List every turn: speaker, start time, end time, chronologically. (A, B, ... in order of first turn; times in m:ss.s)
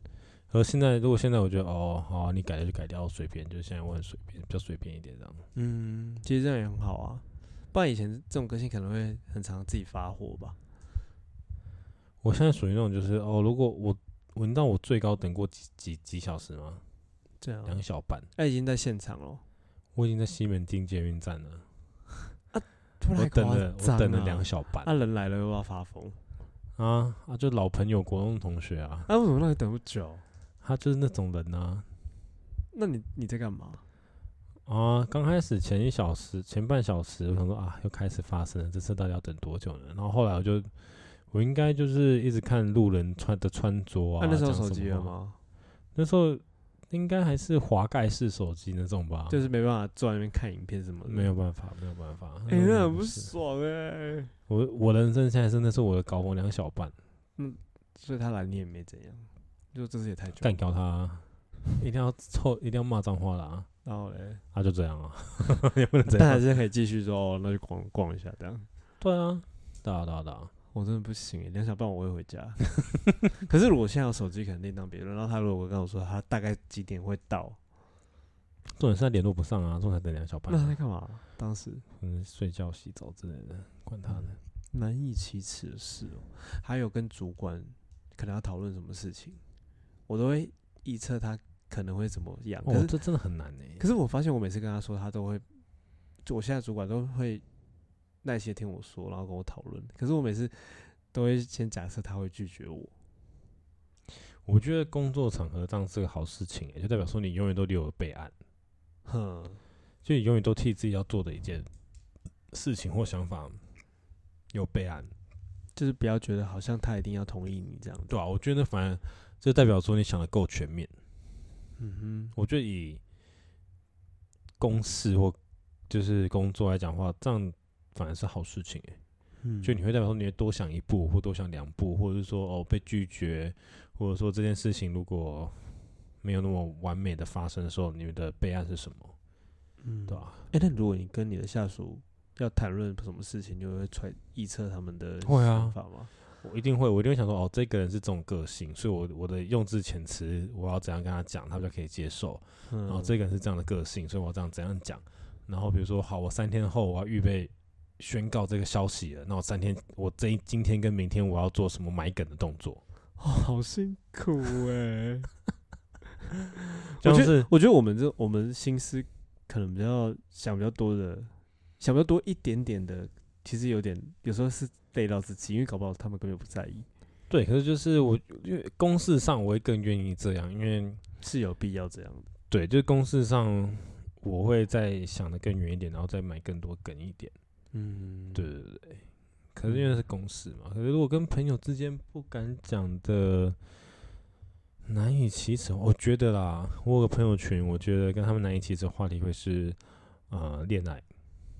0:00.5-0:05.5 A
0:05.5-0:10.6 B
0:12.2-0:16.8 A
0:17.4-0:17.8 B
0:17.6-0:18.3 A
0:18.4-0:19.4 B
0:19.9-0:21.6 A
0:22.5-0:26.2 B
0:23.1-0:24.9 A
0:26.8-0:29.1 A
0:29.1-0:30.2 B
0:30.6-0:31.9 A
0:32.7-0:33.8 B
0:34.6-0:45.1 A
0:44.2-0:45.4 B
0:45.9-0:49.4 A
0:49.3-0:51.3 B
0:51.0-0:53.3 A
0:52.5-0:54.3 B
0:54.5-0:57.0 A
0:57.4-1:00.6 B
1:00.4-1:03.7 A
1:03.8-1:04.4 B
1:04.5-1:06.4 A
1:06.1-1:08.7 B
1:09.0-1:10.5 A
1:10.7-1:17.6 B
1:18.7-1:20.8 A
1:20.5-1:21.8 B
1:22.0-1:24.4 A
1:24.1-1:29.4 B
1:30.1-1:32.9 B
1:32.6-1:33.8 A
1:33.8-1:35.4 B
1:36.2-1:37.4 B
1:38.2-1:42.9 B
1:44.4-1:48.3 A
1:49.0-1:49.6 B
1:50.0-1:51.7 A
1:52.5-1:53.6 A
1:54.5-1:55.1 A
1:55.7-1:58.1 B
1:58.1-2:00.9 A
2:01.8-2:02.3 B
2:02.3-2:03.0 A
2:04.6-2:05.4 A
2:05.9-2:09.0 A
2:09.4-2:09.8 B
2:09.6-2:19.1 A
2:19.8-2:26.1 B
2:20.1-2:20.4 A
2:25.2-2:25.8 A
2:26.4-2:42.8 A
2:32.7-2:33.1 B
2:43.2-2:45.3 B
2:46.9-2:56.9 B
2:47.0-2:47.5 A
2:57.3-3:01.0 A
3:01.2-3:02.3 B
3:02.5-3:07.3 A
3:07.7-3:08.5 B
3:08.3-3:13.6 A
3:09.6-3:10.0 B
3:14.8-3:21.0 A